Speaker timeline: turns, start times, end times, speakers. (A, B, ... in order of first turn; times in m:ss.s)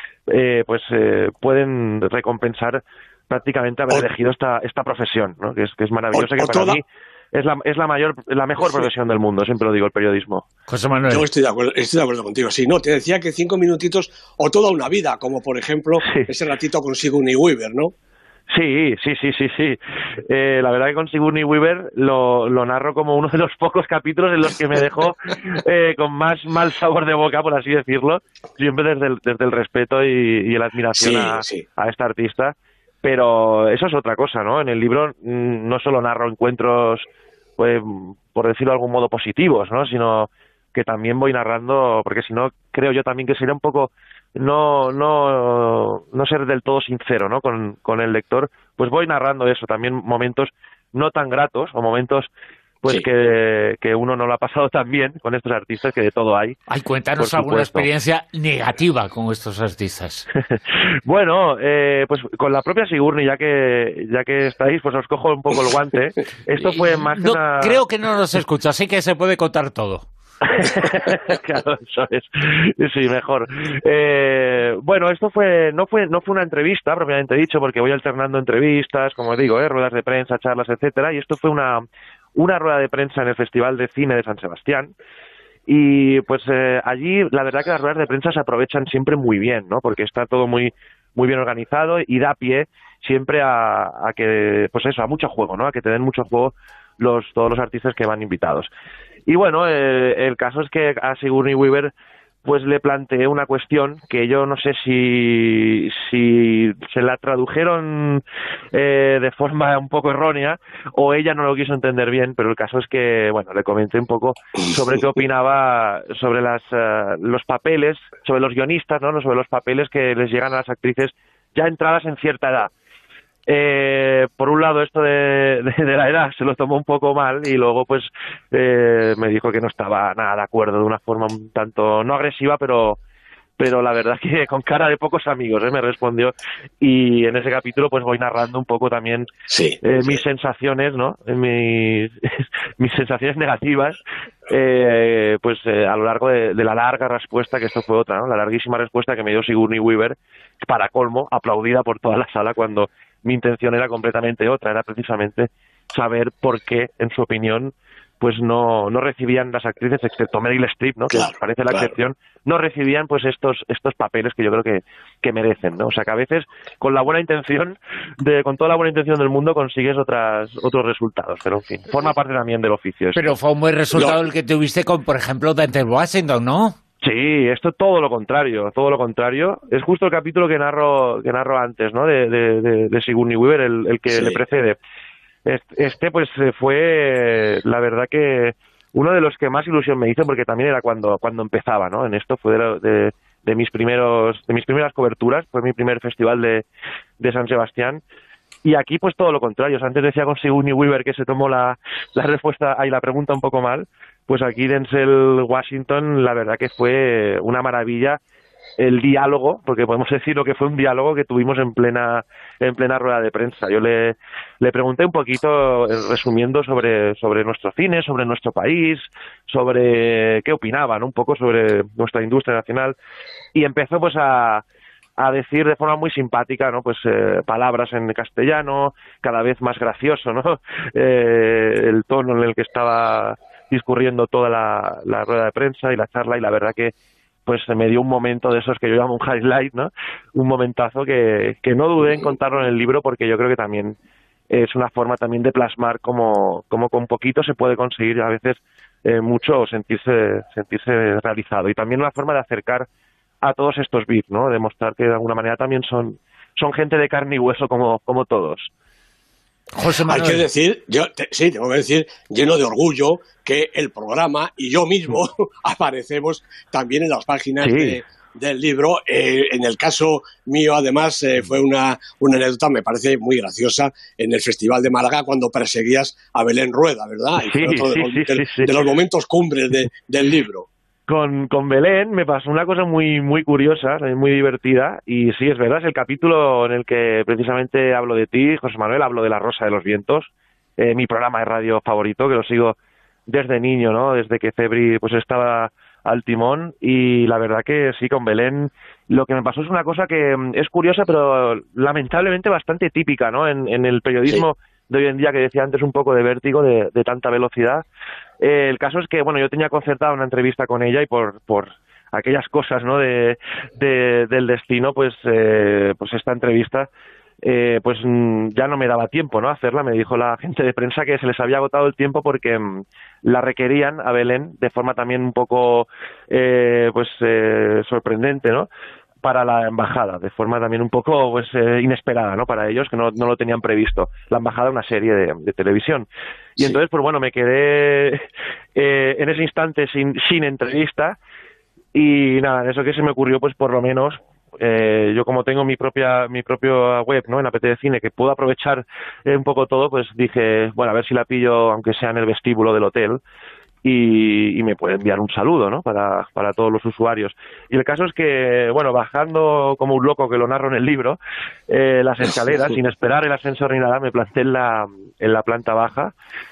0:00.3-0:10.4 A
0:06.1-0:06.8 B
0:10.7-0:11.2 C
0:11.1-0:17.9 B
0:18.5-0:37.0 A
0:30.9-0:31.6 B
0:37.6-0:52.3 A
0:52.8-0:56.6 A
0:56.7-1:00.3 C
0:57.2-0:57.9 A
1:01.0-1:07.8 A
1:06.6-1:10.1 C
1:10.5-1:21.8 A
1:22.4-1:24.9 A
1:25.7-1:38.7 A
1:39.3-1:41.9 A
1:42.4-2:02.7 A
2:03.5-2:13.0 A
2:13.6-2:19.3 A
2:19.5-2:20.2 B
2:19.8-2:24.0 A
2:24.5-2:53.2 A
2:41.1-2:41.9 B
2:53.1-2:56.8 C
2:53.9-2:54.2 B
2:57.0-3:04.8 A
3:04.1-3:04.4 B
3:05.4-3:16.6 A
3:17.2-3:18.0 A
3:18.6-3:28.2 A
3:28.8-3:43.0 A
3:43.5-3:44.6 A
3:45.2-3:56.9 A
3:57.4-4:04.0 A
4:04.5-4:12.9 A
4:13.4-4:18.7 A
4:19.8-4:20.4 C
4:20.1-4:40.7 B
4:27.6-4:28.0 A
4:37.4-4:38.7 A
4:41.1-4:52.8 A
4:53.3-5:07.8 A
5:08.4-5:16.9 A
5:17.4-5:28.7 A
5:29.2-5:36.0 A
5:36.6-5:38.2 A
5:38.8-5:41.2 A
5:41.9-5:53.2 A
5:53.8-6:01.2 A
6:01.7-6:06.1 A